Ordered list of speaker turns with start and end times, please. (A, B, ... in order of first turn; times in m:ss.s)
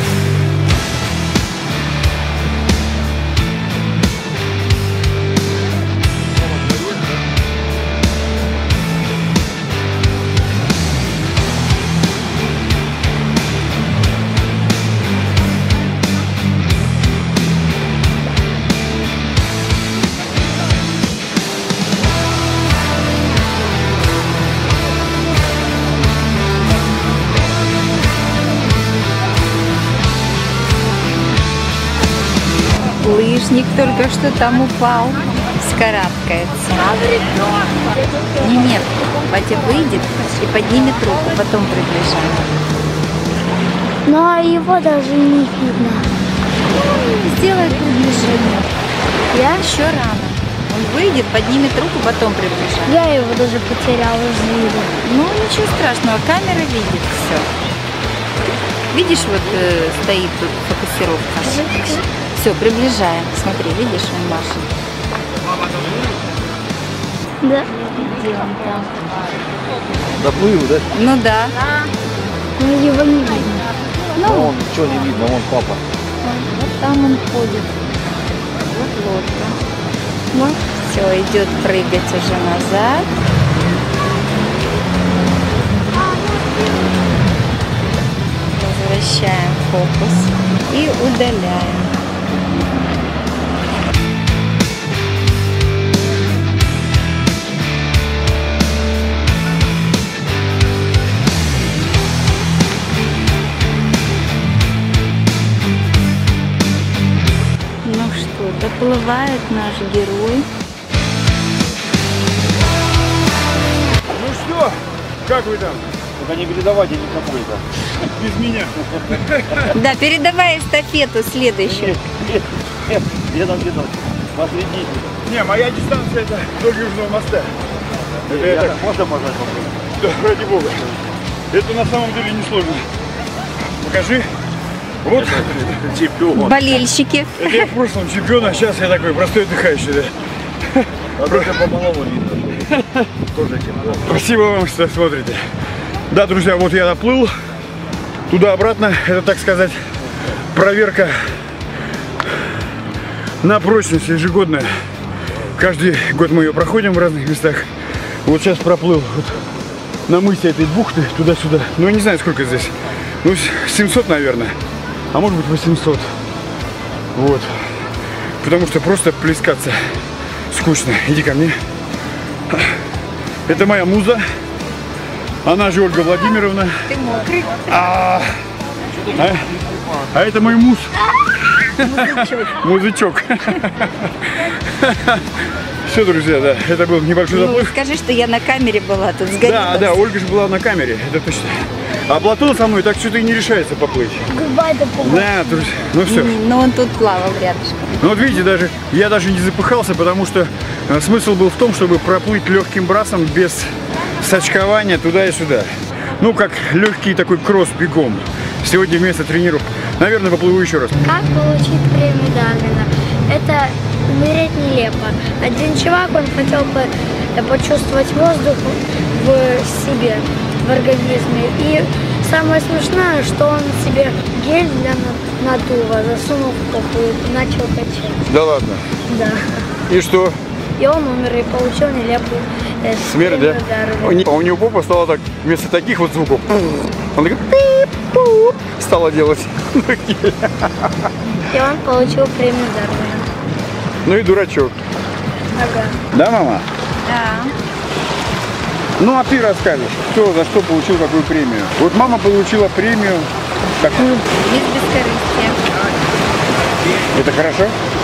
0:33.0-0:37.1 A
0:38.4-0:42.5 A
0:44.1-0:46.1 B
0:46.8-0:48.7 A
0:49.3-0:49.6 B
0:49.3-0:53.0 A
0:52.9-0:55.0 B
0:55.0-0:57.5 A
0:58.9-1:04.6 A
1:01.4-1:02.0 B
1:07.4-1:07.7 B
1:08.0-1:09.0 A
1:10.2-1:10.9 C
1:10.9-1:11.6 A
1:12.6-1:13.6 B
1:14.2-1:14.5 A
1:14.3-1:15.8 C
1:16.2-1:17.8 A
1:18.5-1:19.6 A
1:20.4-1:23.1 A
1:28.5-1:31.9 A
1:47.8-1:50.5 A
1:54.1-1:55.9 D
1:56.2-1:57.6 C
1:58.0-1:59.6 D
1:59.7-2:02.0 A
2:01.7-2:05.1 C
2:05.2-2:07.5 D
2:08.3-2:09.8 C
2:08.3-2:08.8 D
2:10.0-2:10.9 D
2:11.5-2:12.9 D
2:13.8-2:14.3 D
2:15.0-2:15.8 D
2:15.4-2:16.5 C
2:16.3-2:17.7 A
2:17.4-2:20.1 D
2:20.8-2:21.5 D
2:21.2-2:22.7 C
2:23.3-2:24.0 C
2:24.0-2:25.4 D
2:26.1-2:27.3 D
2:28.3-2:29.8 D
2:30.5-2:31.3 D
2:33.4-2:34.7 D
2:35.6-2:37.7 D
2:38.2-2:39.4 D
2:40.1-2:44.6 D
2:45.1-2:46.1 D
2:47.2-2:47.6 D
2:48.4-2:49.8 D
2:50.5-2:51.6 D
2:53.5-2:54.2 D
2:55.4-2:56.8 D
2:56.9-2:57.9 A
2:57.7-2:58.3 D
2:59.1-2:59.5 D
3:00.1-3:01.0 D
3:01.8-3:05.3 D
3:01.8-3:02.6 A
3:05.8-3:07.7 D
3:07.3-3:10.0 A
3:09.4-3:14.3 D
3:14.3-3:15.3 B
3:15.0-3:16.4 D
3:15.6-3:18.0 A
3:18.0-3:31.0 D
3:31.0-3:48.2 B
3:48.3-3:48.9 D
3:49.1-3:49.4 B
3:49.9-3:50.4 D
3:50.8-3:54.2 B
3:53.0-4:00.9 D
4:01.5-4:03.3 B
4:04.0-4:04.8 D
4:05.6-4:06.0 B
4:06.1-4:06.7 D
4:07.0-4:07.5 A
4:09.0-4:14.1 D
4:13.9-4:15.6 A
4:17.1-4:17.8 D